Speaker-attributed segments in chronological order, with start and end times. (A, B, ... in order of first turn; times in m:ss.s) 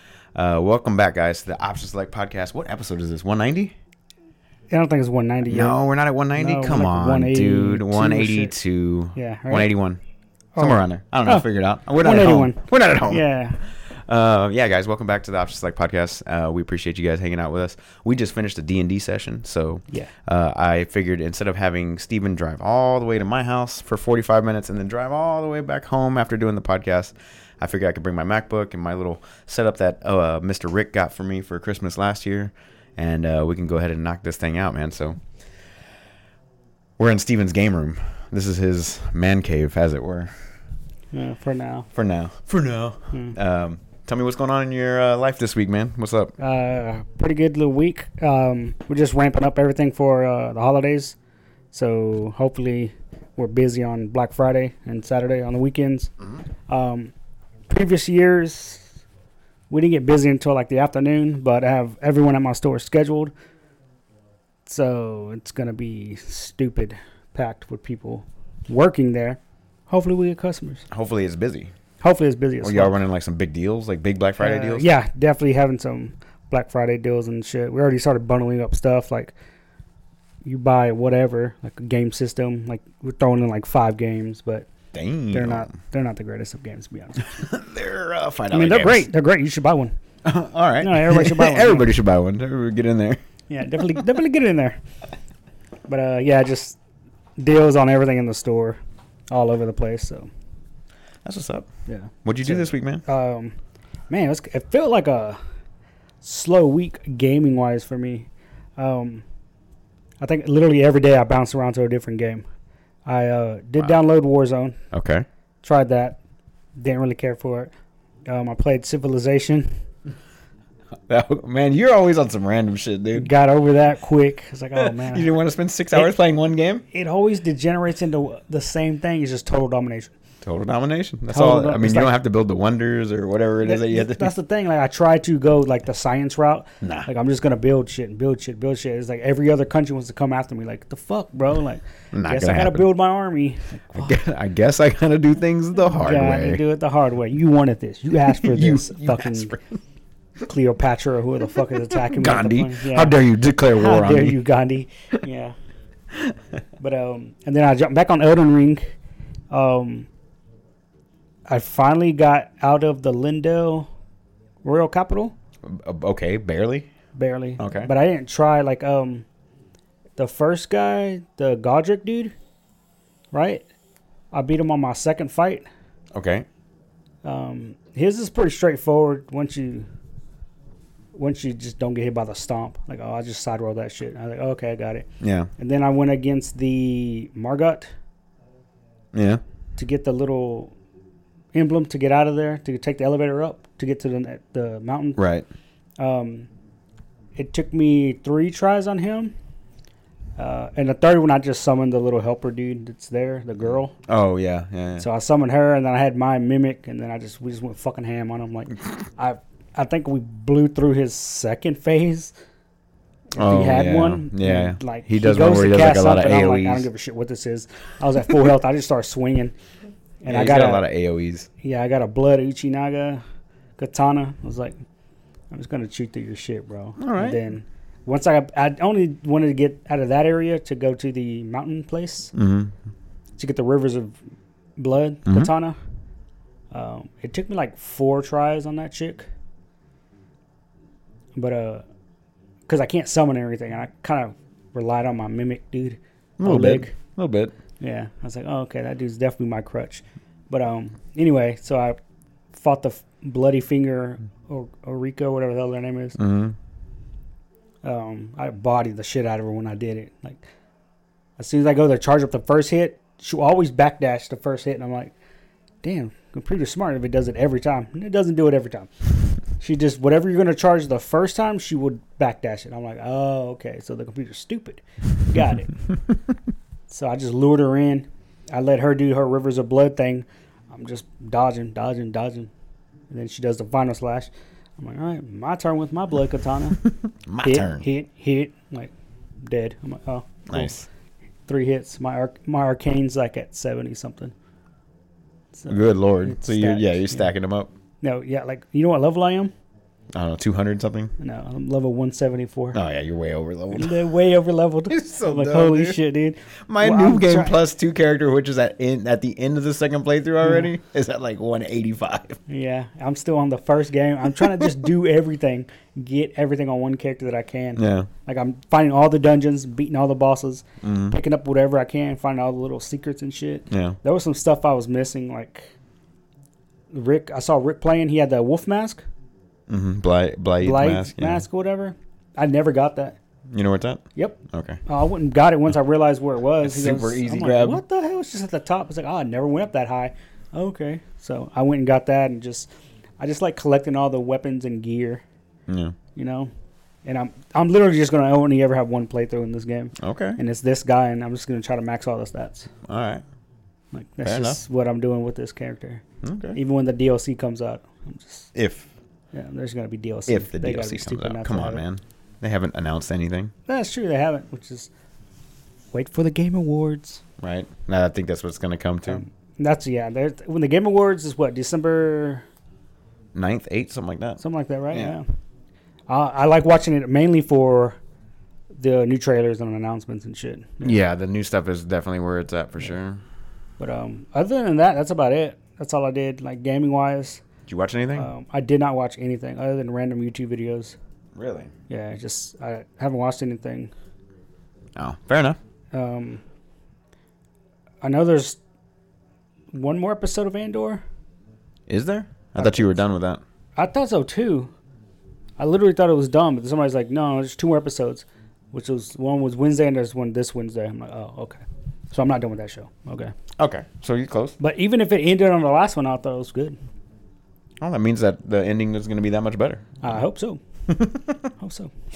0:00.4-0:03.8 A
0:04.7-0:05.8 B
0:05.5-0:10.0 A
0:06.4-0:08.5 B
0:09.2-0:09.7 B
0:10.5-0:11.5 B
0:10.6-0:35.2 A
0:12.0-0:13.6 B
0:37.0-0:40.3 A
0:41.1-0:41.9 B
0:41.9-0:46.3 A
0:46.4-0:51.2 B
0:51.7-0:56.1 B
0:56.7-0:57.1 B
0:57.7-0:58.9 B
0:59.7-1:03.3 B
1:04.7-1:10.8 B
1:10.9-1:11.7 A
1:12.0-1:12.9 B
1:12.6-1:14.9 A
1:14.4-1:19.3 B
1:20.4-1:24.7 B
1:24.9-1:25.7 A
1:25.3-1:27.3 B
1:27.3-1:29.1 A
1:28.5-1:29.9 B
1:30.2-1:33.2 A
1:30.8-1:31.9 B
1:33.5-1:34.8 B
1:35.9-1:36.8 B
1:37.4-1:38.8 B
1:39.3-1:40.3 B
1:41.2-1:41.7 A
1:41.9-1:43.6 B
1:42.2-1:43.0 A
1:44.1-1:45.4 B
1:46.2-1:49.2 B
1:50.2-1:52.4 B
1:53.0-1:54.8 B
1:54.9-1:55.2 A
1:55.6-1:56.2 B
1:56.8-1:57.7 B
1:58.3-1:59.8 B
2:01.1-2:03.3 A
2:03.1-2:05.3 B
2:04.8-2:06.8 A
2:06.9-2:10.1 B
2:10.4-2:14.3 A
2:11.3-2:12.1 B
2:13.6-2:24.1 B
2:16.8-2:17.1 A
2:22.1-2:22.9 A
2:23.9-2:26.6 A
2:26.0-2:29.5 B
2:28.2-2:29.8 A
2:30.5-2:33.2 B
2:31.6-2:34.4 A
2:33.7-2:35.6 B
2:36.8-2:38.9 B
2:39.5-2:40.1 B
2:41.5-2:43.9 B
2:44.6-2:45.3 B
2:45.6-2:46.9 A
2:47.2-2:49.2 B
2:47.6-2:47.9 A
2:50.2-2:52.3 B
2:53.3-2:53.6 B
2:54.3-2:55.7 B
2:56.1-2:56.5 A
2:57.2-2:59.9 B
3:01.2-3:05.1 B
3:05.2-3:05.5 A
3:05.6-3:07.9 B
3:09.1-3:09.4 A
3:09.8-3:10.7 B
3:11.5-3:15.2 B
3:15.2-3:15.5 A
3:16.0-3:16.5 B
3:17.4-3:19.3 B
3:20.4-3:23.9 B
3:24.1-3:25.1 A
3:25.0-3:32.3 B
3:33.4-3:36.9 A
3:33.4-3:39.5 B
3:40.2-3:40.9 B
3:40.3-3:41.5 A
3:41.6-3:43.2 B
3:43.8-3:44.8 B
3:45.5-3:52.3 B
3:47.0-3:47.4 A
3:52.3-3:52.8 A
3:53.4-3:54.2 B
3:54.8-3:55.8 B
3:55.2-3:55.5 A
3:56.7-3:59.2 B
4:01.4-4:01.8 B
4:02.7-4:06.9 B
4:06.4-4:07.5 A
4:07.8-4:12.0 B
4:12.5-4:16.2 B
4:16.2-4:16.6 A
4:17.8-4:20.4 B
4:21.4-4:25.1 B
4:25.8-4:28.9 B
4:29.6-4:35.7 B
4:36.9-4:42.5 B
4:43.1-4:46.8 B
4:47.3-4:47.8 A
4:47.4-4:50.7 B
4:50.5-4:50.9 A
4:51.5-4:54.3 B
4:55.5-4:57.2 B
4:55.7-4:57.7 A
4:58.0-4:59.5 B
5:00.1-5:01.1 A
5:01.2-5:02.8 B
5:02.7-5:04.1 A
5:03.7-5:07.6 B
5:04.9-5:06.0 A
5:06.7-5:12.4 A
5:10.4-5:10.7 B
5:12.5-5:25.7 B
5:14.3-5:14.8 A
5:17.8-5:18.1 A
5:20.8-5:21.2 A
5:23.7-5:24.0 A
5:26.9-5:29.0 B
5:29.7-5:31.4 A
5:30.6-5:33.2 B
5:33.5-5:34.8 A
5:34.1-5:45.2 B
5:36.6-5:37.8 A
5:45.7-5:46.0 A
5:46.1-5:46.5 B
5:47.0-5:52.7 B
5:50.0-5:50.4 A
5:52.9-5:53.2 A
5:53.9-5:56.0 B
5:54.2-5:54.6 A
5:56.2-5:56.6 A
5:56.5-5:58.5 B
5:58.6-5:58.9 A
5:59.3-6:01.8 B
6:00.3-6:03.5 A
6:03.7-6:04.9 B
6:05.9-6:07.2 B
6:07.4-6:09.2 A
6:09.1-6:12.4 B
6:13.4-6:15.2 A
6:14.4-6:15.2 B
6:16.1-6:18.0 B
6:18.8-6:21.0 B
6:20.8-6:23.2 A
6:23.8-6:27.4 B
6:27.7-6:28.3 A
6:28.1-6:31.0 B
6:31.4-6:31.7 A
6:31.9-6:33.9 B
6:35.0-6:35.6 A
6:35.9-6:36.4 B
6:38.0-6:38.6 B
6:39.7-6:41.0 B
6:41.9-6:43.4 A
6:42.6-6:43.0 B
6:43.8-6:44.7 B
6:45.6-6:51.6 B
6:52.1-6:53.3 B
6:53.6-6:54.6 A
6:54.6-6:56.8 B
6:57.8-7:00.0 A
7:00.0-7:00.6 B
7:00.9-7:01.4 A
7:01.6-7:01.9 B